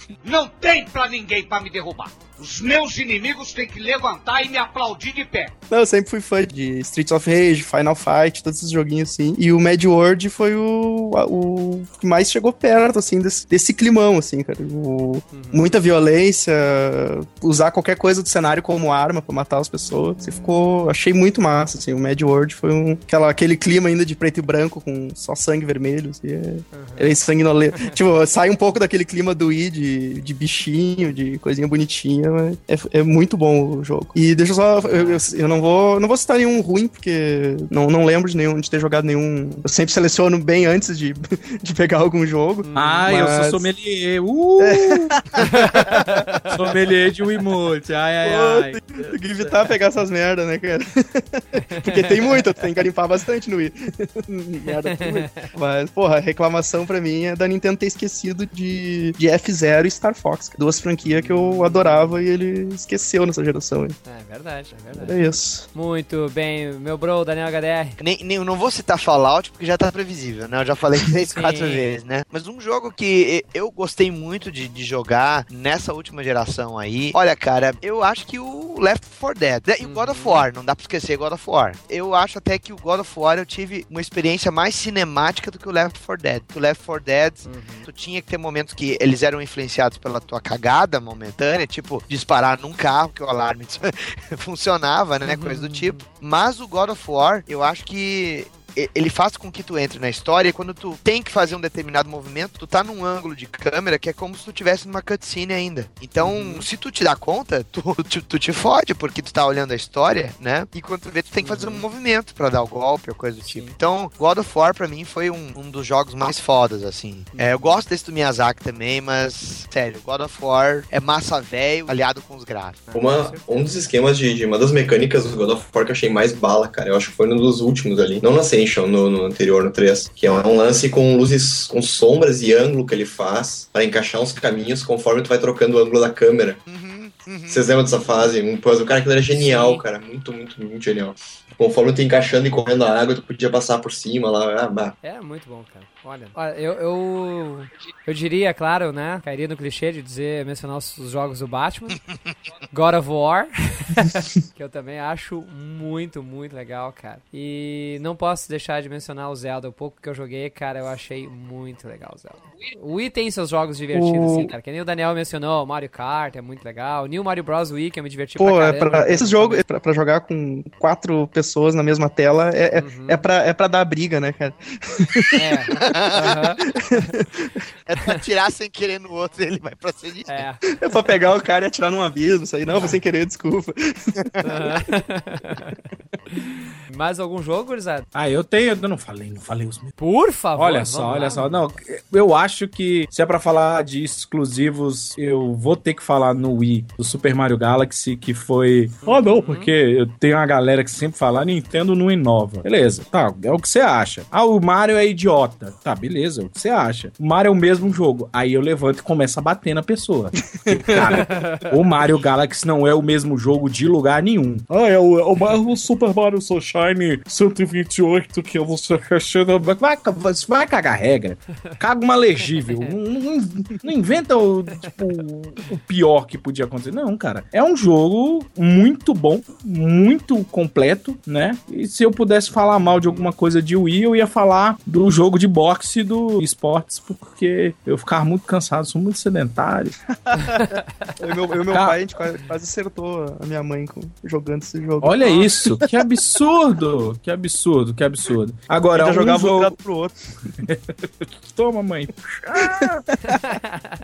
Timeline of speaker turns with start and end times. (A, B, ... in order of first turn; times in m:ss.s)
0:00.2-0:05.5 A
0:05.7-0:43.6 B
0:15.3-0:15.7 C
0:26.7-0:27.2 C
0:34.8-0:35.2 C
0:42.6-0:43.1 C
0:42.7-0:45.2 D
0:44.6-0:46.1 B
0:45.5-0:46.5 C
0:46.5-0:49.2 D
0:48.2-1:04.0 B
0:51.7-0:52.4 C
0:54.9-0:55.5 C
1:01.0-1:02.2 C
1:04.0-1:05.2 C
1:04.9-1:05.6 B
1:05.7-1:08.0 C
1:08.0-2:02.8 E
1:11.3-1:11.8 C
1:19.8-1:20.4 C
1:27.4-1:27.9 C
1:35.2-1:36.0 C
1:46.2-1:46.6 C
1:51.4-1:51.8 C
1:53.4-1:53.7 C
1:57.3-1:57.8 C
2:02.9-2:03.7 C
2:02.9-2:16.6 F
2:16.7-2:17.8 E
2:17.5-2:24.9 F
2:19.3-2:19.8 C
2:25.0-2:32.0 C
2:32.7-2:49.6 C
2:43.9-2:44.5 B
2:48.4-2:55.5 B
2:52.7-2:53.2 C
2:55.4-2:56.6 C
2:55.8-2:56.4 E
2:56.8-2:57.5 B
2:57.8-3:00.4 E
3:00.3-3:00.6 C
3:00.8-3:04.8 B
3:02.7-3:03.0 C
3:04.4-3:05.7 C
3:06.9-3:08.1 C
3:08.1-3:09.9 D
3:10.0-3:11.7 C
3:10.6-4:00.0 D
3:19.0-3:19.7 C
3:30.6-3:31.2 B
3:31.3-3:31.6 C
3:42.6-3:42.9 C
3:52.8-3:53.3 C
4:01.2-4:05.9 B
4:01.7-4:02.0 D
4:05.0-4:09.8 D
4:08.9-4:10.1 B
4:10.6-4:13.0 D